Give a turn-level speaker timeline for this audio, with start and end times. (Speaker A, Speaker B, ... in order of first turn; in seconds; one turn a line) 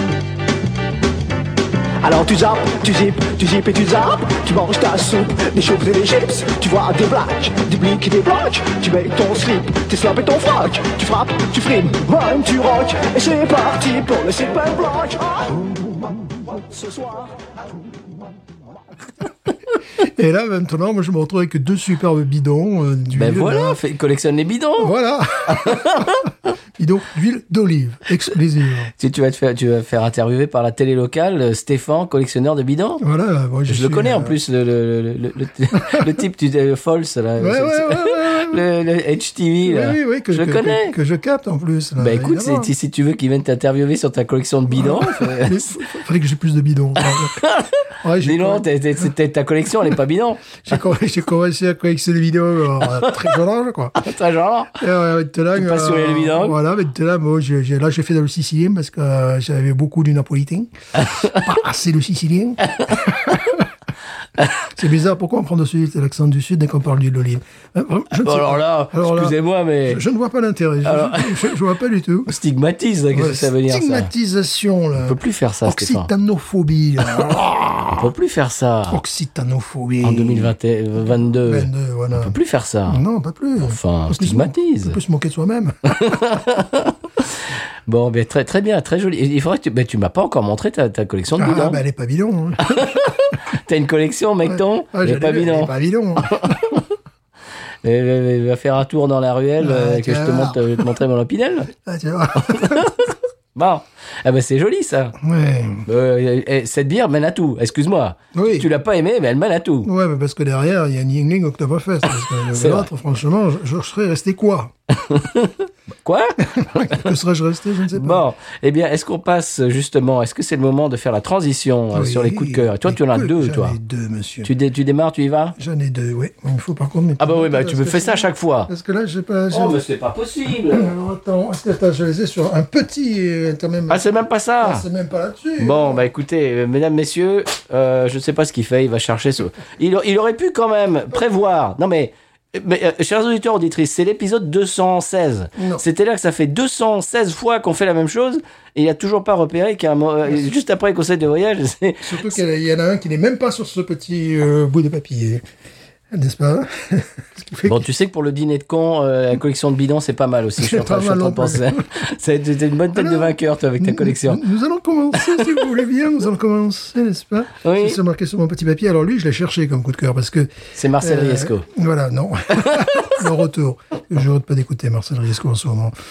Speaker A: 2.0-15.6
Speaker B: 15.6-16.4
Speaker A: 16.5-17.4
Speaker B: 19.9-23.8
Speaker C: 23.1-24.9
Speaker B: 24.8-26.2
Speaker C: 25.4-26.3
Speaker B: 26.8-28.9
Speaker C: 28.9-33.0
Speaker B: 33.0-34.3
Speaker C: 33.7-40.9
Speaker B: 35.7-36.1
Speaker B: 37.4-38.6
Speaker B: 39.6-42.7
Speaker C: 42.0-45.8
Speaker B: 44.7-47.4
Speaker C: 47.3-50.5
Speaker B: 48.0-49.1
Speaker B: 50.6-54.0
Speaker C: 54.0-54.8
Speaker B: 54.8-63.6
Speaker C: 55.5-56.6
Speaker C: 61.0-61.3
Speaker C: 62.6-63.4
Speaker B: 64.7-72.3
Speaker C: 68.1-70.0
Speaker C: 70.8-71.5
Speaker C: 72.3-74.1
Speaker B: 73.1-78.1
Speaker C: 74.9-76.1
Speaker C: 77.9-79.0
Speaker B: 78.9-80.5
Speaker C: 80.0-83.0
Speaker B: 81.2-82.3
Speaker B: 82.9-86.2
Speaker C: 83.6-85.0
Speaker C: 85.9-87.3
Speaker C: 87.8-91.8
Speaker B: 91.3-93.0
Speaker C: 92.6-96.9
Speaker B: 94.5-96.6
Speaker C: 97.8-101.7
Speaker B: 99.6-100.9
Speaker B: 101.8-102.9
Speaker C: 102.4-105.2
Speaker B: 105.2-105.9
Speaker C: 105.8-109.9
Speaker B: 108.3-108.7
Speaker B: 109.8-114.7
Speaker C: 112.5-112.9
Speaker C: 114.9-117.1
Speaker B: 116.5-118.2
Speaker C: 117.9-123.7
Speaker B: 121.9-124.5
Speaker C: 124.4-125.5
Speaker B: 125.6-129.8
Speaker C: 127.2-128.7
Speaker C: 129.5-130.9
Speaker B: 130.7-134.1
Speaker C: 133.9-134.8
Speaker B: 134.6-136.0
Speaker C: 135.6-152.4
Speaker B: 145.6-145.8
Speaker B: 152.0-155.4
Speaker B: 156.1-157.9
Speaker C: 157.7-164.4
Speaker B: 160.6-161.9
Speaker B: 162.9-175.9
Speaker C: 167.6-168.0
Speaker C: 170.7-171.7
Speaker C: 172.6-173.2